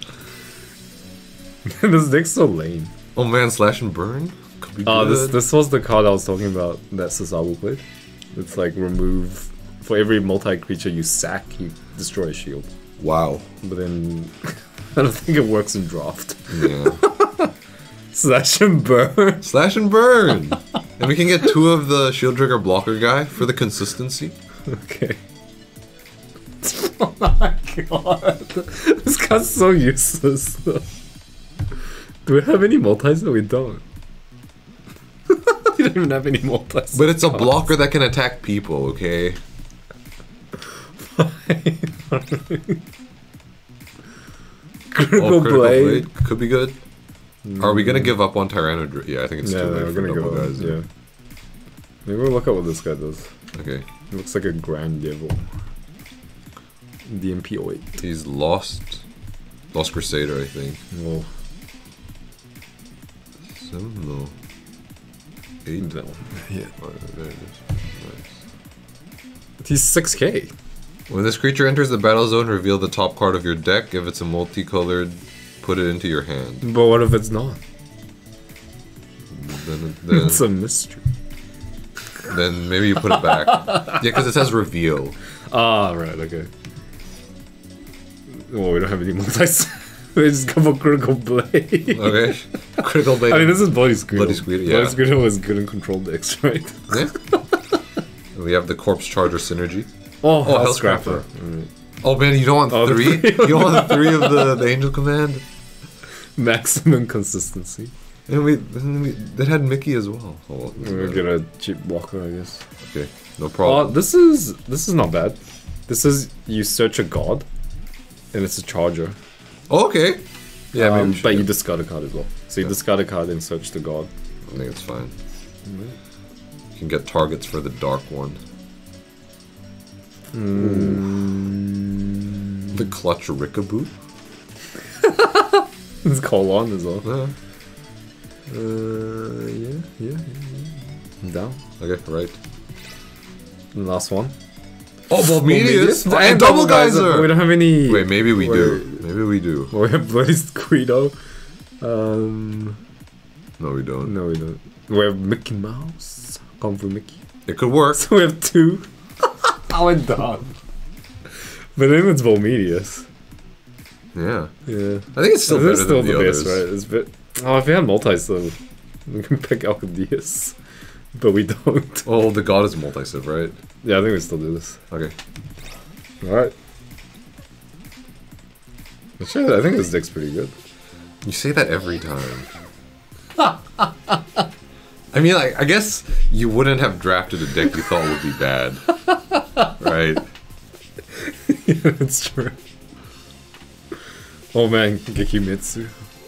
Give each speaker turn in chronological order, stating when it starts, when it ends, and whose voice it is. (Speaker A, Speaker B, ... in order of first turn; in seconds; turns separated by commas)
Speaker A: 1.6-2.9, Speaker B: 3.1-5.4, Speaker A: 4.8-12.7, Speaker B: 13.0-13.5, Speaker A: 13.6-17.5, Speaker B: 16.5-17.0, Speaker A: 18.1-19.4, Speaker B: 19.4-24.3, Speaker A: 24.7-25.2, Speaker A: 26.6-30.8, Speaker A: 32.2-33.8, Speaker A: 35.5-37.5, Speaker B: 36.9-39.4, Speaker A: 41.0-42.8, Speaker A: 44.9-46.1, Speaker B: 45.1-46.8, Speaker A: 47.4-48.1, Speaker B: 47.6-50.8, Speaker A: 49.4-50.9, Speaker A: 52.0-53.3, Speaker B: 53.5-53.8, Speaker A: 54.1-55.5, Speaker A: 57.0-58.0, Speaker B: 58.0-59.0, Speaker B: 59.7-60.8, Speaker A: 60.9-61.3, Speaker B: 63.5-64.3, Speaker A: 65.8-66.7, Speaker B: 66.8-68.3, Speaker A: 69.6-70.5, Speaker B: 71.1-76.6, Speaker A: 76.6-77.6, Speaker B: 79.3-80.4, Speaker A: 80.1-81.0, Speaker B: 82.3-85.2, Speaker A: 83.0-84.0, Speaker A: 85.5-86.5, Speaker A: 88.3-97.6, Speaker B: 91.9-95.0, Speaker B: 98.3-99.9, Speaker A: 100.2-101.7, Speaker B: 100.4-101.2, Speaker B: 102.0-105.4, Speaker A: 102.7-104.6, Speaker A: 106.4-107.9, Speaker B: 108.3-111.2, Speaker A: 110.8-112.6, Speaker B: 112.8-114.0, Speaker A: 113.6-117.5, Speaker A: 118.3-119.2, Speaker B: 119.7-121.5, Speaker A: 120.7-124.1, Speaker B: 124.5-125.1, Speaker A: 125.7-125.9, Speaker B: 126.8-128.4, Speaker A: 130.3-132.8, Speaker B: 130.5-131.1, Speaker B: 132.7-133.9, Speaker A: 135.0-137.1, Speaker B: 137.0-137.3, Speaker A: 138.5-141.6, Speaker B: 141.8-142.4, Speaker A: 143.7-144.3, Speaker B: 145.1-149.7, Speaker A: 145.2-149.0, Speaker A: 149.7-151.1, Speaker A: 151.8-152.8, Speaker B: 153.6-154.1, Speaker A: 154.0-157.2, Speaker B: 157.5-158.0, Speaker A: 157.9-160.5, Speaker A: 161.8-163.1, Speaker B: 164.1-164.5, Speaker A: 164.7-170.6, Speaker B: 165.1-166.6, Speaker A: 171.1-172.1, Speaker B: 172.0-173.6, Speaker A: 173.8-174.8, Speaker A: 176.2-176.5, Speaker A: 179.2-180.5, Speaker B: 181.2-182.5, Speaker A: 183.4-184.1, Speaker B: 185.1-188.8, Speaker A: 189.1-189.7, Speaker B: 189.7-190.3, Speaker A: 191.1-192.6, Speaker A: 194.5-195.9